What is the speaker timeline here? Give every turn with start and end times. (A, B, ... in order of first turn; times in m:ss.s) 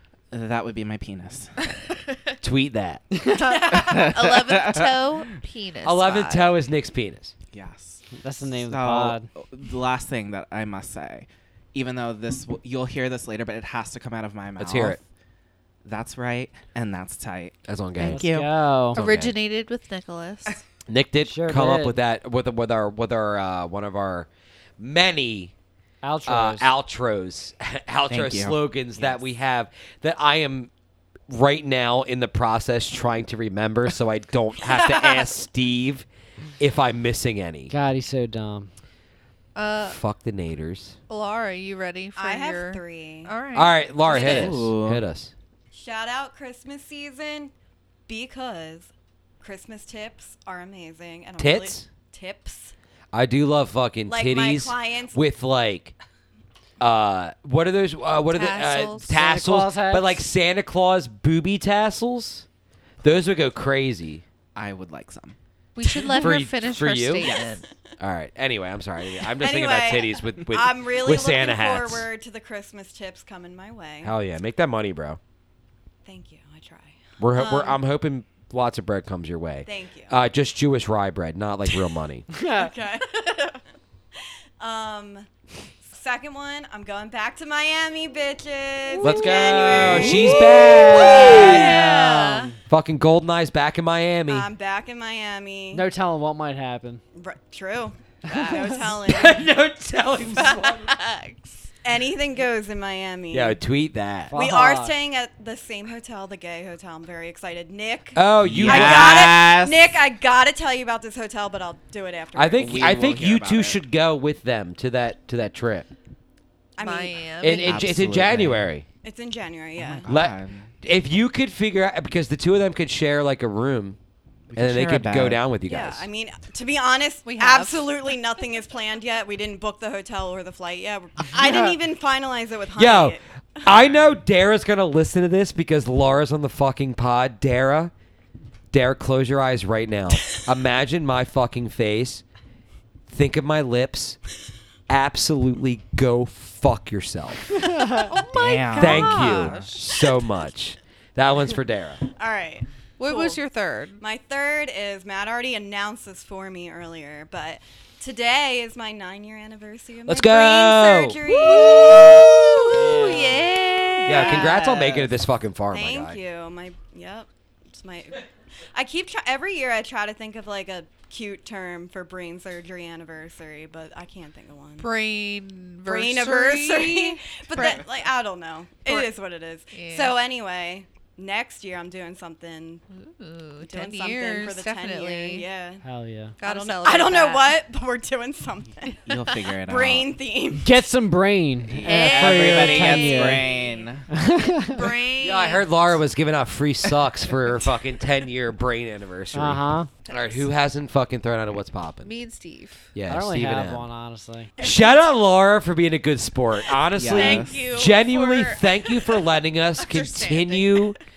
0:00.3-0:01.5 A
0:02.1-0:02.4 B
0:02.4-0:03.0 C
0:03.2-0:03.4 D
0:03.3-0:06.3 B
0:03.4-0:05.3 A
0:05.8-0:07.3 C
0:06.0-0:06.4 A
0:07.5-0:15.0 A
0:08.1-0:09.3 D
0:14.6-0:15.0 C
0:15.8-0:18.6 A
0:17.7-0:18.2 C
0:18.1-0:19.0 D
0:18.9-0:19.4 C
0:18.9-0:20.6 B
0:20.9-0:24.3 C
0:21.2-0:22.0 D
0:24.8-0:25.5 C
0:26.0-0:26.7 D
0:26.3-0:30.7 C
0:28.1-0:29.2 A
0:31.3-0:36.1 C
0:36.6-0:37.7 C
0:37.7-0:38.7 D
0:39.6-0:40.0 B
0:39.8-0:41.0 C
0:41.1-0:44.7 B
0:42.2-0:43.3 E
0:43.5-0:45.3 C
0:44.1-0:44.5 E
0:44.2-0:45.0 A
0:45.7-0:47.5 E
0:48.1-0:52.7 E
0:51.4-0:51.9 C
0:53.1-0:55.9 C
0:54.1-0:55.3 E
0:56.8-1:02.5 C
0:58.3-0:59.1 B
0:59.2-1:00.2 D
1:03.0-1:04.2 C
1:04.6-1:05.4 A
1:05.8-1:07.7 B
1:06.0-1:06.3 A
1:06.1-1:07.3 C
1:07.2-1:07.5 A
1:08.0-1:12.1 C
1:09.4-1:14.1 E
1:14.0-1:15.2 C
1:16.0-1:17.8 E
1:17.2-1:22.3 C
1:19.6-1:20.2 E
1:22.3-1:22.7 D
1:22.5-1:23.6 E
1:24.6-1:25.3 E
1:25.9-1:32.5 E
1:28.9-1:32.5 B
1:29.0-1:31.8 C
1:31.0-1:32.4 D
1:32.7-1:34.5 C
1:34.3-1:35.9 E
1:35.7-1:37.0 D
1:37.2-1:39.5 E
1:39.0-1:40.9 C
1:40.3-1:41.7 B
1:41.8-1:43.6 E
1:43.3-1:44.4 C
1:44.3-1:45.0 D
1:44.3-1:53.0 E
1:48.2-1:49.4 C
1:48.4-1:50.0 A
1:52.4-1:55.9 C
1:52.6-1:53.8 A
1:56.8-1:57.4 E
1:56.8-1:57.9 B
1:57.4-1:58.9 C
1:57.6-1:58.7 A
1:59.0-2:00.1 E
1:59.8-2:00.7 A
2:00.1-2:04.0 C
2:04.5-2:05.4 A
2:04.6-2:06.1 C
2:05.6-2:13.8 E
2:07.2-2:08.0 B
2:12.8-2:17.9 C
2:18.7-2:22.2 C
2:23.1-2:24.2 C
2:24.9-2:27.8 C
2:27.7-2:29.9 B
2:28.3-2:29.7 A
2:28.8-2:32.0 C
2:32.2-2:33.4 E
2:33.0-2:34.0 B
2:34.0-2:42.3 E
2:40.1-2:41.2 C
2:41.3-2:44.5 B
2:42.8-2:43.2 A
2:44.1-2:46.2 C
2:44.1-2:45.1 A
2:44.2-2:44.7 E
2:45.7-2:54.9 E
2:54.8-2:57.9 B
2:55.9-3:02.8 E
2:59.7-3:00.2 B
3:02.9-3:05.5 B
3:03.6-3:05.8 E
3:05.8-3:06.4 D
3:06.4-3:07.6 B
3:06.4-3:09.0 E
3:09.1-3:10.1 A
3:09.6-3:10.7 E
3:10.6-3:13.4 D
3:11.7-3:14.1 A
3:11.8-3:16.0 B
3:14.1-3:14.8 D
3:15.2-3:22.1 C
3:19.3-3:19.9 D
3:20.1-3:20.5 B
3:22.0-3:22.9 B
3:23.0-3:23.8 C
3:23.1-3:24.5 D
3:24.6-3:25.0 E
3:24.6-3:31.0 C
3:27.0-3:27.7 A
3:27.0-3:29.3 B
3:29.8-3:31.0 B